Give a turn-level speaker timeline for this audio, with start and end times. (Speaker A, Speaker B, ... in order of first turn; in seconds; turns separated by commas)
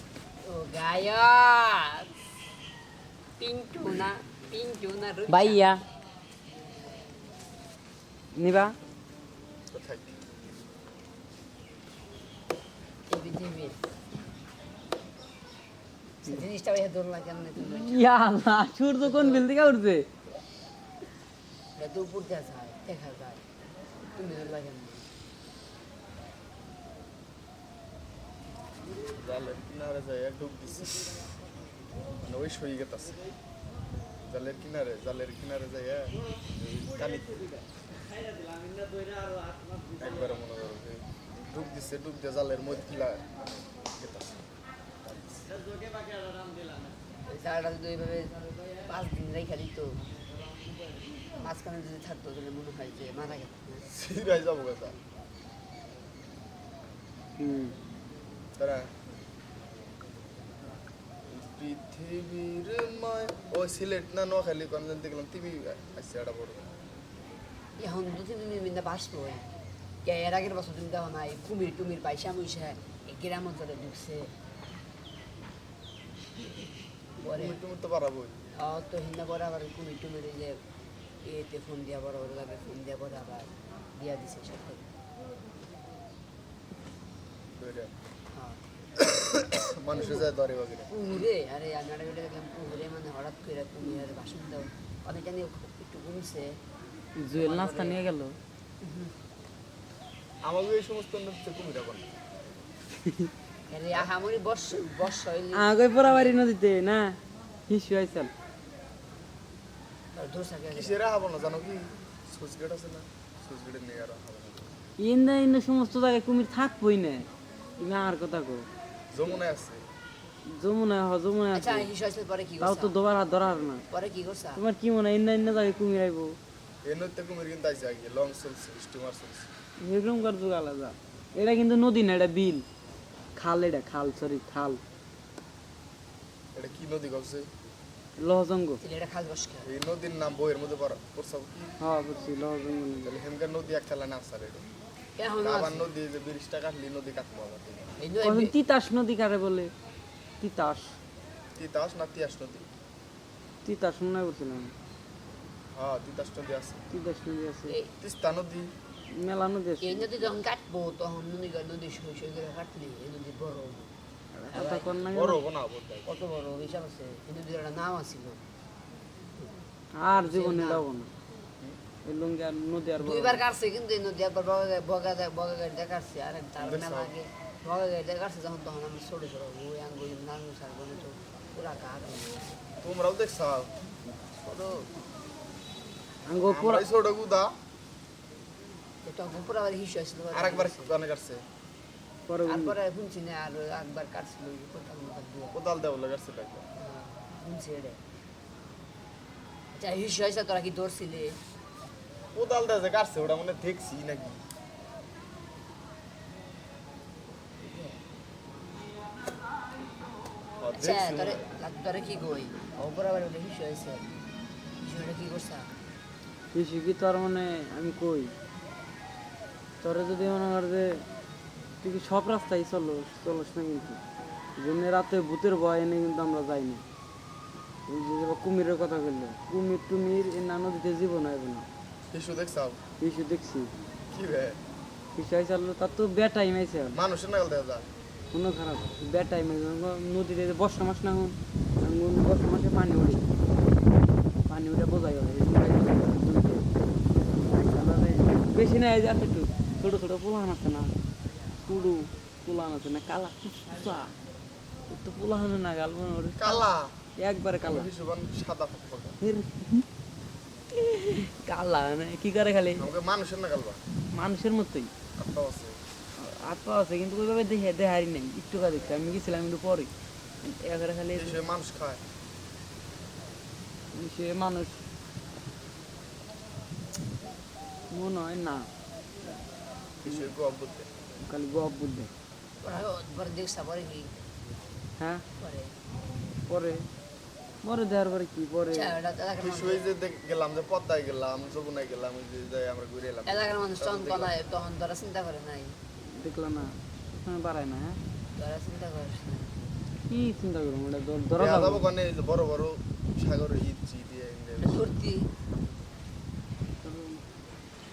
Speaker A: 0.4-2.1, Speaker A: 3.4-5.7, Speaker B: 5.3-5.8, Speaker B: 8.3-8.8, Speaker C: 9.7-10.2, Speaker A: 13.1-13.8, Speaker A: 16.2-18.0, Speaker B: 17.6-20.1, Speaker A: 19.1-19.4, Speaker A: 21.8-23.4, Speaker A: 24.1-25.1, Speaker C: 29.2-31.2, Speaker C: 32.2-33.2, Speaker C: 34.3-37.5, Speaker C: 40.0-43.3, Speaker C: 43.9-44.4, Speaker C: 45.0-45.5, Speaker A: 47.3-50.0, Speaker A: 51.4-53.9, Speaker C: 53.9-55.0, Speaker B: 57.4-57.8, Speaker C: 58.6-58.9, Speaker C: 61.3-66.7, Speaker A: 67.8-69.5, Speaker A: 70.0-74.3, Speaker A: 77.2-77.6, Speaker C: 77.3-78.4, Speaker A: 78.5-80.6, Speaker A: 81.2-84.9, Speaker C: 87.5-87.9, Speaker A: 88.3-88.6, Speaker C: 89.0-90.9, Speaker A: 90.9-96.6, Speaker B: 97.2-98.4, Speaker A: 97.3-98.0, Speaker A: 98.8-99.1, Speaker C: 100.4-102.1, Speaker A: 103.7-106.4, Speaker B: 105.5-107.2, Speaker B: 107.7-108.3, Speaker A: 110.1-111.0, Speaker C: 110.7-114.8, Speaker B: 115.0-118.7, Speaker C: 119.1-119.9, Speaker B: 120.5-121.9, Speaker A: 121.5-123.0, Speaker B: 122.6-123.8, Speaker A: 123.9-124.6, Speaker B: 124.6-126.4, Speaker C: 126.8-129.5, Speaker B: 129.8-132.7, Speaker B: 133.3-134.8, Speaker C: 136.5-137.5, Speaker B: 138.2-138.8, Speaker A: 138.8-139.7, Speaker C: 139.6-141.8, Speaker B: 141.8-143.2, Speaker C: 143.0-144.7, Speaker A: 145.2-145.9, Speaker C: 145.4-147.9, Speaker A: 148.0-148.5, Speaker B: 148.2-149.7, Speaker B: 150.4-151.0, Speaker C: 151.6-152.7, Speaker B: 153.6-154.7, Speaker C: 155.7-156.8, Speaker B: 156.9-157.8, Speaker A: 157.7-157.9, Speaker C: 158.0-158.8, Speaker B: 159.1-160.1, Speaker A: 159.8-163.9, Speaker B: 164.3-165.4, Speaker A: 164.5-164.9, Speaker C: 165.1-166.1, Speaker A: 166.1-168.4, Speaker B: 170.0-171.1, Speaker A: 170.2-170.8, Speaker B: 172.0-173.4, Speaker A: 173.0-182.6, Speaker C: 176.6-177.1, Speaker C: 182.8-183.7, Speaker A: 184.3-184.9, Speaker B: 186.2-186.9, Speaker C: 186.4-187.5, Speaker A: 189.0-190.9, Speaker C: 190.3-191.4, Speaker B: 192.3-192.8, Speaker A: 192.5-195.6, Speaker C: 195.5-196.7, Speaker A: 196.8-198.0, Speaker A: 199.7-201.4, Speaker C: 202.3-204.4, Speaker A: 207.6-208.0, Speaker C: 210.6-211.5, Speaker A: 210.7-214.1, Speaker A: 214.8-215.7, Speaker B: 216.5-218.3, Speaker B: 219.8-221.0, Speaker B: 221.8-224.0, Speaker B: 224.6-226.8, Speaker B: 227.9-231.7, Speaker C: 232.1-232.8, Speaker B: 233.0-233.7, Speaker C: 234.1-234.6, Speaker B: 235.2-237.0, Speaker C: 236.9-237.9, Speaker B: 238.3-243.2, Speaker B: 244.5-246.7, Speaker B: 247.5-250.9, Speaker B: 251.7-254.1, Speaker B: 254.9-256.6, Speaker C: 256.4-257.0, Speaker B: 257.2-257.9, Speaker C: 257.6-259.2, Speaker B: 259.2-259.9, Speaker B: 260.7-262.9, Speaker C: 262.8-263.8, Speaker B: 264.1-264.9, Speaker C: 265.1-265.8, Speaker B: 266.2-269.9, Speaker B: 270.4-271.4, Speaker C: 271.1-272.0, Speaker B: 273.9-274.8, Speaker B: 277.9-278.7, Speaker B: 280.0-280.3, Speaker C: 280.0-280.9, Speaker B: 281.2-282.1, Speaker A: 282.6-284.1, Speaker B: 285.0-285.2, Speaker A: 285.4-285.8, Speaker B: 286.5-286.9, Speaker B: 287.6-288.9, Speaker A: 288.7-289.9, Speaker C: 289.4-294.3, Speaker A: 293.2-295.8, Speaker B: 296.0-298.0, Speaker A: 298.4-299.6, Speaker B: 300.1-301.9, Speaker C: 301.4-304.9, Speaker A: 304.6-305.3, Speaker B: 306.8-307.2